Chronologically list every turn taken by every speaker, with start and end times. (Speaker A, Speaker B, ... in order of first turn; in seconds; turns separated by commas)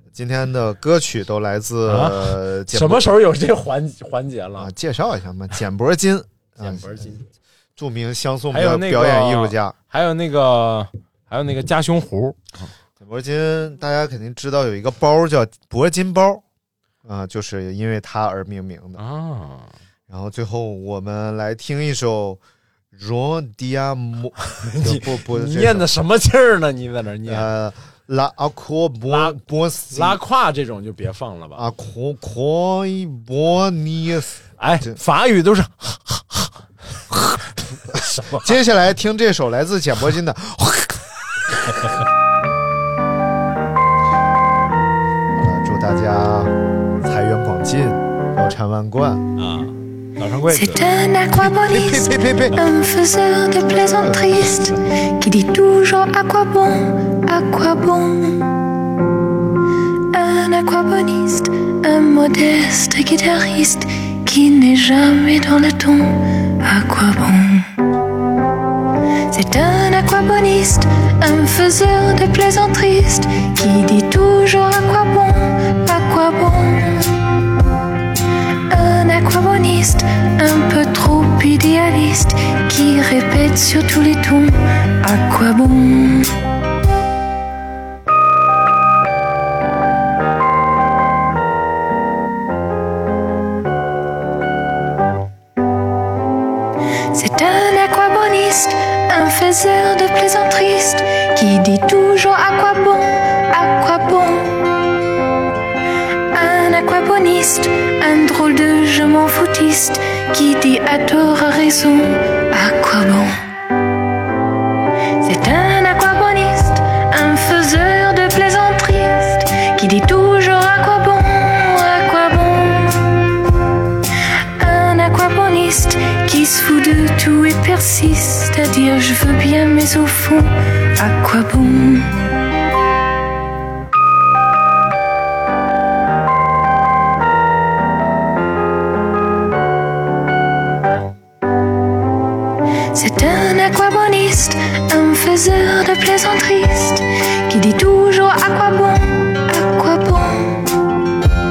Speaker A: 0.1-3.1, Speaker B: 1.9-4.7, Speaker A: 4.6-7.2, Speaker B: 6.6-7.2, Speaker A: 7.8-9.8, Speaker B: 8.5-12.7, Speaker A: 13.0-16.4, Speaker A: 17.1-19.0, Speaker B: 19.0-19.7, Speaker A: 20.1-22.4, Speaker A: 22.9-25.9, Speaker B: 24.5-27.5, Speaker A: 27.2-30.2, Speaker B: 29.1-31.6, Speaker A: 31.6-35.0, Speaker B: 34.6-36.6, Speaker A: 37.1-41.0, Speaker B: 37.9-38.5, Speaker A: 45.3-49.2, Speaker B: 49.4-50.8, Speaker C: 50.5-58.5, Speaker A: 51.5-52.6, Speaker C: 60.1-67.7, Speaker C: 69.3-77.3, Speaker C: 78.7-86.3, Speaker C: 97.1-104.6, Speaker C: 106.3-113.4, Speaker C: 115.2-123.2, Speaker C: 124.6-132.2, Speaker C: 142.9-150.8